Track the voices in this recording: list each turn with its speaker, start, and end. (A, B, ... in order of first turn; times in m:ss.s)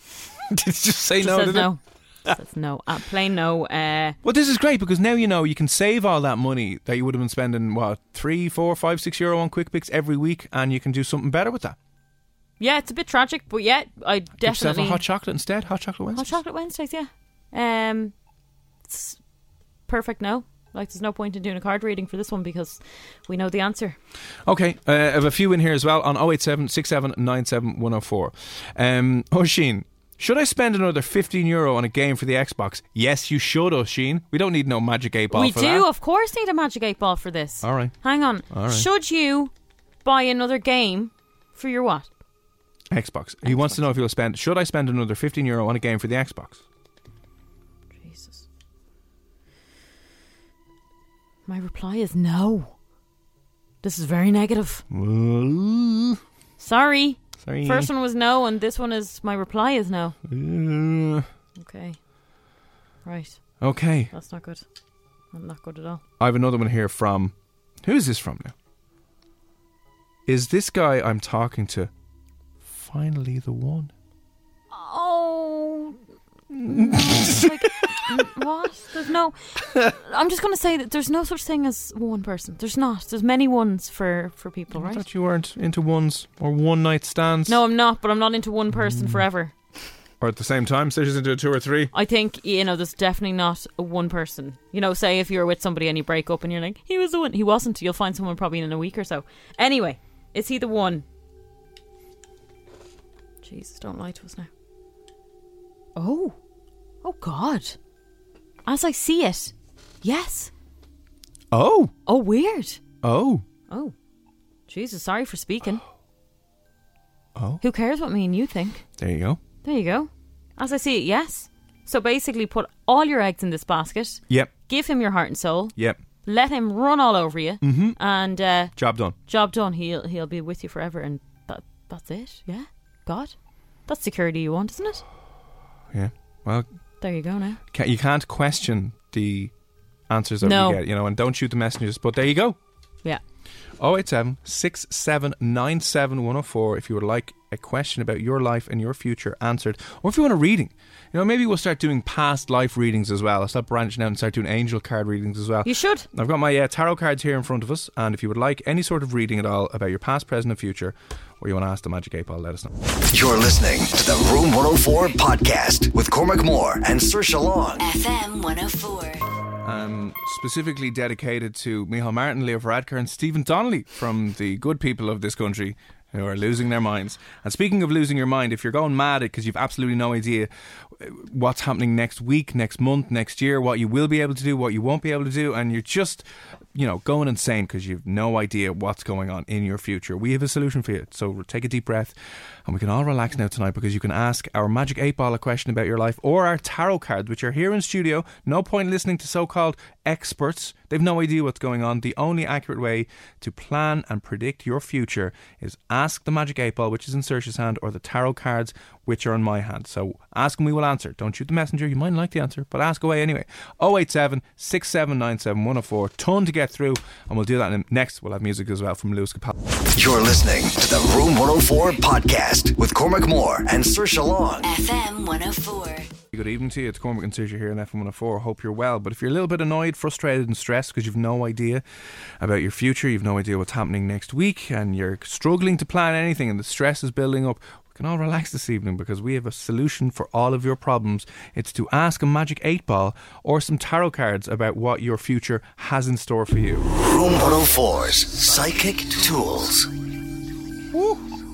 0:00.5-0:01.7 A
0:01.2-0:04.2 B
0:04.2-0:11.8 A
0:12.6-0:15.0 B
0:14.4-0:16.4 A
0:16.1-0:18.1 B
0:18.8-0:19.2 B
0:19.9-0:24.0 B
0:24.4-0:35.9 A
0:35.3-0:39.5 B
0:37.6-0:37.9 A
0:38.5-0:38.9 A
0:40.0-0:42.1 B
0:42.9-0:46.6 A
0:43.4-0:43.9 B
0:48.0-0:48.4 B
0:51.4-0:52.7 B
0:53.8-0:54.8 B
0:54.9-0:56.2 A
0:56.6-1:00.2 B
0:57.4-0:57.9 A
1:00.2-1:01.3 A
1:01.6-1:02.0 B
1:03.0-1:03.5 B
1:03.6-1:04.1 A
1:04.1-1:04.6 B
1:05.3-1:06.0 B
1:06.2-1:08.5 A
1:10.2-1:11.9 A
1:12.6-1:13.9 A
1:14.7-1:16.0 B
1:16.5-1:18.0 A
1:16.6-1:25.0 B
1:24.7-1:27.6 A
1:27.5-1:29.5 B
1:28.7-1:29.2 A
1:30.2-1:31.9 A
1:31.9-1:41.0 B
1:43.4-1:44.5 B
1:46.0-1:46.3 B
1:47.0-1:47.8 B
1:48.6-1:50.5 B
1:51.5-1:51.9 A
1:52.0-1:52.8 B
1:53.0-1:53.4 A
1:53.7-1:53.9 B
1:54.7-1:55.8 B
1:57.3-1:57.6 A
1:57.6-1:58.8 B
1:59.0-1:59.4 A
1:59.6-2:08.7 B
2:07.6-2:08.0 A
2:08.7-2:09.2 A
2:09.2-2:13.3 B
2:13.8-2:15.0 B
2:15.9-2:16.7 A
2:17.0-2:17.6 B
2:17.7-2:19.5 A
2:20.1-2:22.6 A
2:20.4-2:20.8 B
2:23.8-2:42.7 A
2:35.6-2:36.0 B
2:43.1-2:47.8 C
2:47.8-2:49.2 D
2:49.6-3:12.1 A
3:12.6-3:39.5 A
3:39.9-3:44.7 C
3:44.6-3:46.1 D
3:46.3-3:51.8 A
3:52.4-4:06.8 A
4:07.0-4:09.9 C
4:10.9-4:11.2 A